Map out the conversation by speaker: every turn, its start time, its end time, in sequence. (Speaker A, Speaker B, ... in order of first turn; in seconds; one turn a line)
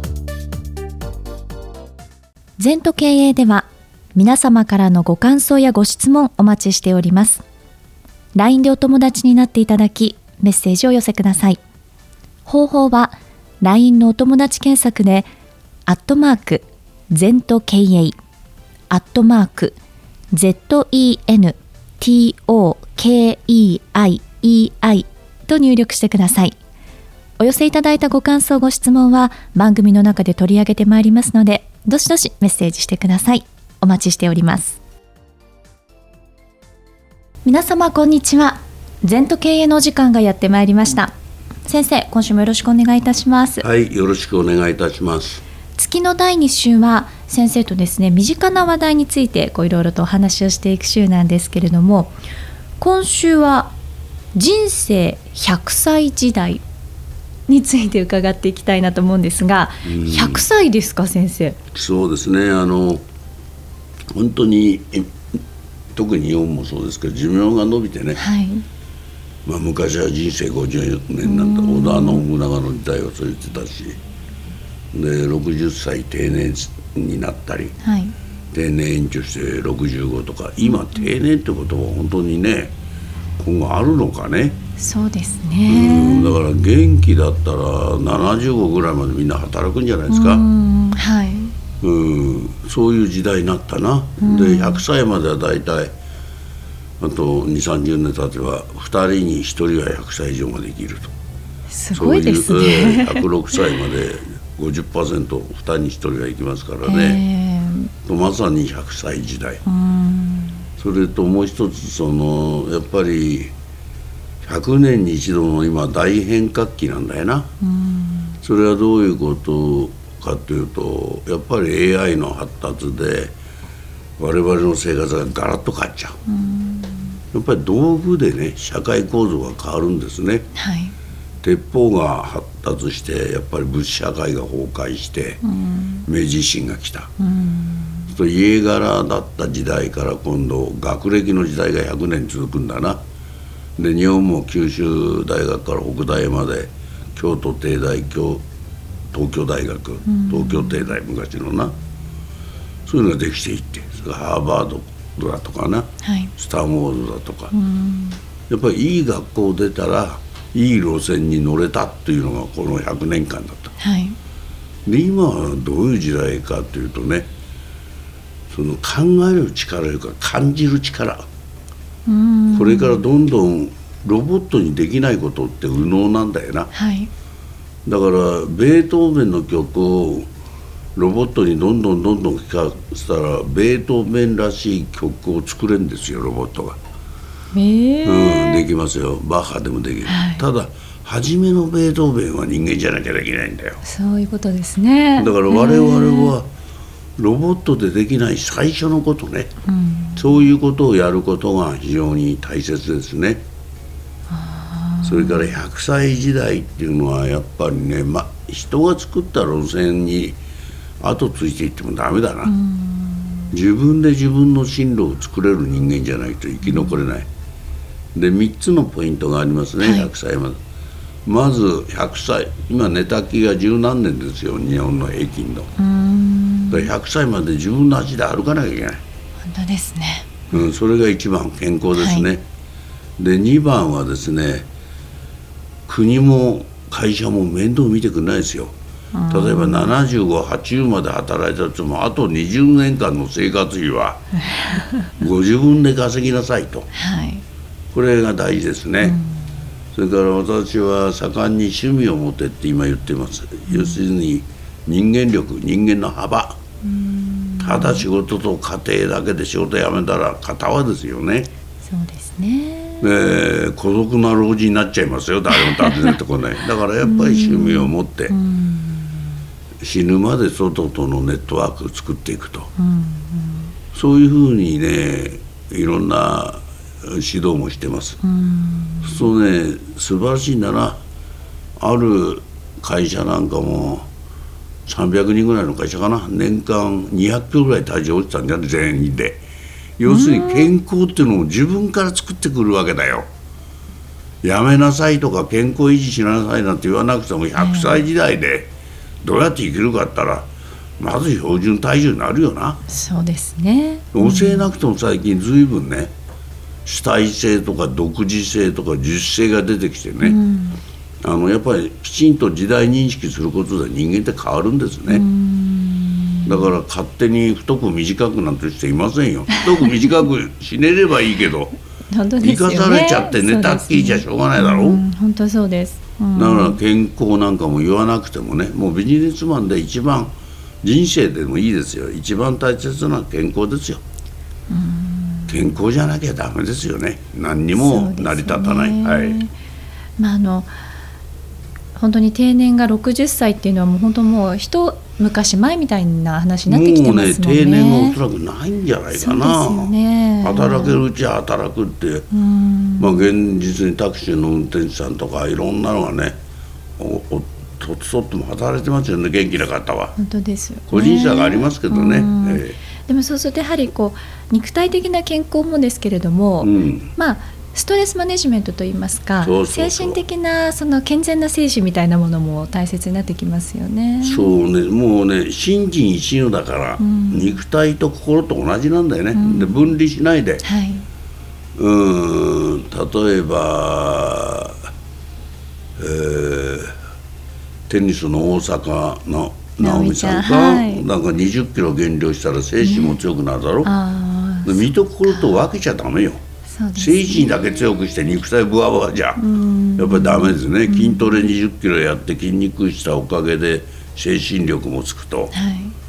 Speaker A: 2.6-7.4
Speaker A: 8.3-11.6
Speaker A: 12.4-15.3
Speaker A: 15.9-18.2
Speaker A: 18.9-19.8
Speaker A: 20.3-26.6
Speaker A: 27.4-34.8
Speaker A: 37.4-41.1
Speaker A: 41.6-43.6
Speaker B: 43.6-45.4
Speaker A: 45.8-52.1
Speaker A: 52.8-53.7
Speaker A: 54.3-56.6
Speaker A: 57.5-61.6
Speaker B: 59.8-60.4
Speaker B: 61.7-63.0
Speaker B: 64.1-65.1
Speaker B: 65.9-68.2
Speaker A: 68.1-68.6
Speaker B: 69.5-74.0
Speaker A: 71.2-72.2
Speaker B: 74.9-77.7
Speaker A: 77.8-78.1
Speaker B: 78.5-82.7
Speaker B: 83.4-84.6
Speaker A: 84.8-86.4
Speaker B: 85.7-90.4
Speaker A: 90.1-91.5
Speaker B: 91.8-95.9
Speaker A: 94.2-94.8
Speaker B: 97.0-101.1
Speaker A: 101.7-103.2
Speaker B: 101.9-107.2
Speaker A: 106.8-107.9
Speaker B: 108.0-109.6
Speaker A: 109.6-110.6
Speaker B: 110.8-113.5
Speaker B: 114.4-117.5
Speaker A: 117.6-118.3
Speaker B: 118.4-123.3
Speaker B: 124.2-126.2
Speaker A: 126.2-127.2
Speaker B: 127.3-130.4
Speaker A: 130.5-130.9
Speaker B: 131.4-135.4
Speaker A: 135.4-136.1
Speaker B: 136.1-137.1
Speaker A: 137.2-138.1
Speaker B: 138.1-143.0
Speaker B: 143.8-148.4
Speaker B: 149.1-151.7
Speaker A: 150.1-150.8
Speaker B: 152.8-157.5
Speaker A: 156.0-156.3
Speaker A: 157.5-158.2
Speaker B: 158.5-163.7
Speaker A: 163.8-164.2
Speaker B: 164.8-167.3
Speaker B: 168.5-171.2
Speaker A: 172.1-173.0
Speaker B: 172.5-176.7
Speaker A: 176.7-177.1
Speaker B: 177.8-180.3
Speaker B: 180.9-186.8
Speaker A: 187.5-188.7
Speaker B: 188.0-193.8
Speaker A: 190.1-190.4
Speaker A: 193.8-196.3
Speaker B: 195.2-196.5
Speaker B: 197.2-199.5
Speaker A: 199.7-200.3
Speaker B: 200.2-203.4
Speaker A: 204.3-205.6
Speaker B: 205.0-210.4
Speaker B: 211.0-212.5
Speaker A: 212.4-213.5
Speaker B: 213.5-217.3
Speaker A: 216.6-217.0
Speaker B: 218.1-220.6
Speaker A: 219.8-220.1
Speaker B: 221.2-225.7
Speaker A: 225.8-226.9
Speaker B: 226.7-229.0
Speaker A: 229.4-230.6
Speaker B: 230.5-232.4
Speaker A: 232.0-232.3
Speaker B: 233.2-234.7
Speaker B: 235.9-238.7
Speaker A: 239.1-239.9
Speaker B: 239.3-244.2
Speaker B: 245.2-246.9
Speaker A: 246.9-247.4
Speaker B: 247.9-249.2
Speaker A: 249.0-249.4
Speaker B: 249.9-256.6
Speaker A: 253.7-254.0
Speaker A: 256.8-258.1
Speaker B: 257.6-261.5
Speaker A: 261.8-263.1
Speaker B: 263.0-268.4
Speaker A: 265.8-266.1
Speaker A: 267.0-269.3
Speaker B: 269.8-272.7
Speaker A: 272.8-273.7
Speaker B: 273.9-278.2
Speaker A: 278.2-279.3
Speaker B: 279.0-281.0
Speaker B: 281.8-284.1
Speaker B: 284.9-289.4
Speaker B: 290.0-293.3
Speaker A: 290.0-290.7
Speaker B: 294.4-298.7
Speaker A: 297.6-298.0
Speaker B: 299.2-302.8
Speaker A: 302.9-304.7
Speaker B: 304.1-306.1
Speaker B: 306.9-310.4
Speaker A: 310.2-310.8
Speaker B: 311.2-315.2
Speaker A: 315.1-316.6
Speaker B: 316.4-321.8
Speaker A: 322.1-326.8
Speaker B: 322.4-325.0
Speaker B: 326.3-334.0
Speaker A: 334.7-335.7
Speaker B: 335.5-339.4
Speaker A: 337.7-339.5
Speaker A: 340.2-340.7
Speaker A: 341.9-348.2
Speaker B: 346.7-352.3
Speaker A: 349.1-351.0
Speaker A: 352.3-353.2
Speaker B: 353.0-356.4
Speaker B: 357.0-360.1
Speaker A: 360.1-374.5
Speaker B: 360.9-362.8
Speaker B: 366.6-367.1
Speaker B: 369.4-370.2
Speaker B: 374.2-380.6
Speaker A: 377.0-377.6
Speaker A: 379.3-379.9
Speaker A: 380.6-381.1
Speaker B: 381.8-384.8
Speaker B: 386.0-386.9
Speaker B: 387.9-393.9
Speaker A: 389.8-391.0
Speaker A: 392.8-393.2
Speaker A: 393.8-395.6
Speaker B: 394.6-396.4
Speaker A: 396.7-397.7
Speaker B: 396.9-399.4
Speaker A: 399.4-401.5
Speaker B: 400.0-405.5
Speaker A: 405.5-405.9